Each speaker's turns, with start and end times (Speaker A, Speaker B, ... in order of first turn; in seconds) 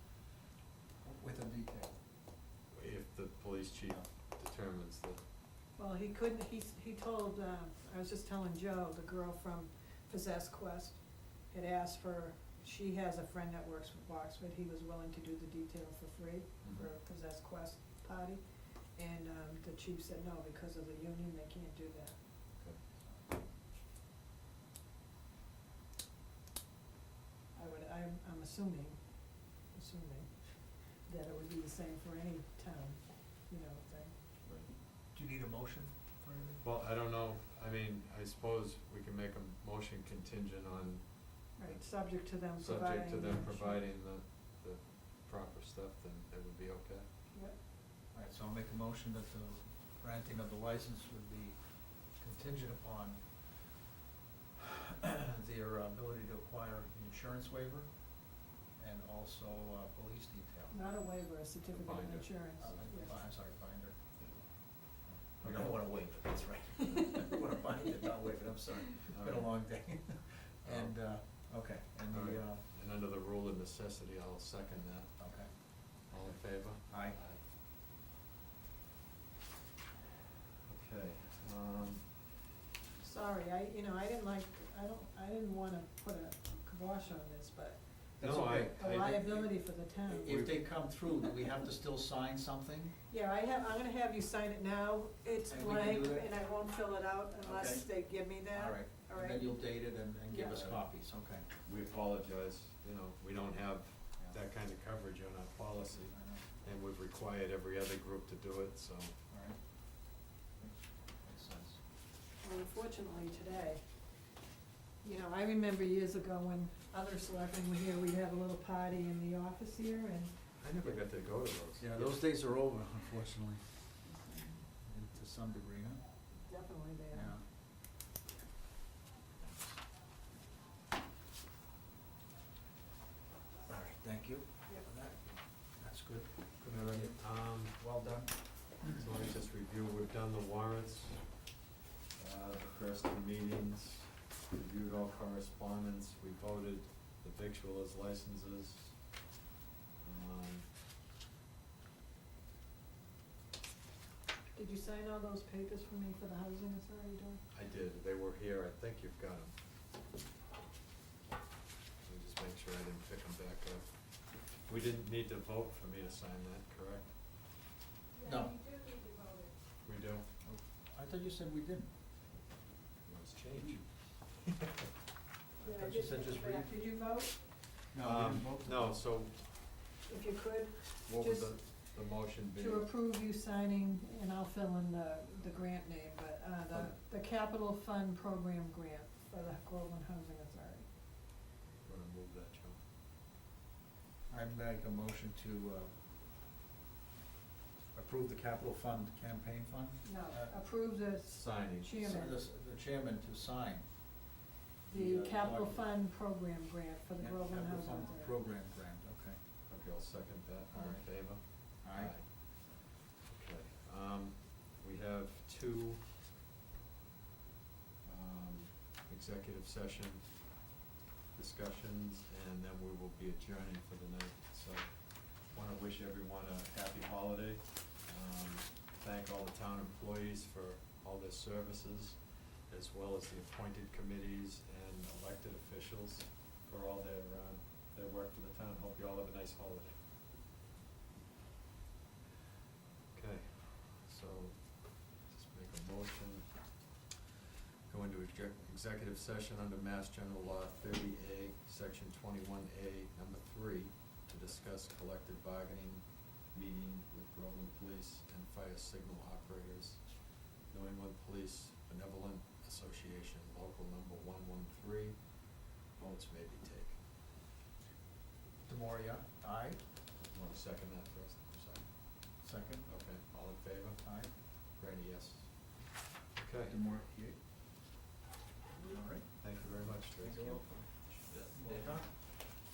Speaker A: 1.0-2.0, 23.1-23.4, 35.1-36.6, 48.1-53.7, 54.6-58.2, 58.8-60.7, 62.6-64.0, 65.1-72.6, 75.2-75.5, 76.2-77.2, 88.2-89.5, 90.0-92.9, 95.5-96.3, 97.4-101.5, 106.2-106.4, 109.3-109.6, 110.6-111.8, 121.8-123.7, 124.8-126.0, 127.1-127.4, 129.4-129.8, 133.7-138.9, 168.2-168.6, 170.4-171.9, 175.6-176.8, 177.9-178.9, 194.3-195.9, 197.9-200.6, 202.0-205.8, 207.2-209.4, 210.7-211.1, 211.6-212.2, 268.7-269.8, 272.4-272.9, 274.0-274.3, 276.7-277.4, 278.8-279.3, 280.2-280.9, 281.5-282.1
Speaker B: 2.7-5.2, 34.4-34.7, 36.6-47.1, 61.7-62.8, 64.2-64.8, 65.4-65.8, 66.9-67.2, 69.1-69.5, 70.7-71.0, 72.1-77.4, 80.7-82.2, 88.2-89.4, 101.6-109.1, 120.6-122.2, 136.7-137.8, 138.8-141.4, 142.2-149.0, 150.0-150.7, 157.5-159.5, 162.0-167.1, 169.8-170.2, 173.1-173.9, 178.0-179.7, 181.1-182.9, 186.7-187.0, 191.8-192.8, 201.3-202.0, 209.7-216.1, 218.0-220.4, 221.3-240.0, 243.1-246.8, 247.9-265.4, 265.9-267.0, 270.2-272.0, 272.9-275.7, 276.3-276.8, 279.4-281.3
Speaker C: 5.8-22.2, 27.5-34.2, 41.6-43.8, 60.7-63.2, 83.0-88.0, 88.7-90.4, 93.1-99.6, 100.3-100.8, 112.4-113.8, 115.0-120.3, 124.1-124.7, 126.4-127.4, 154.6-157.4, 175.6-177.4, 180.1-190.9, 200.0-202.4, 204.9-208.3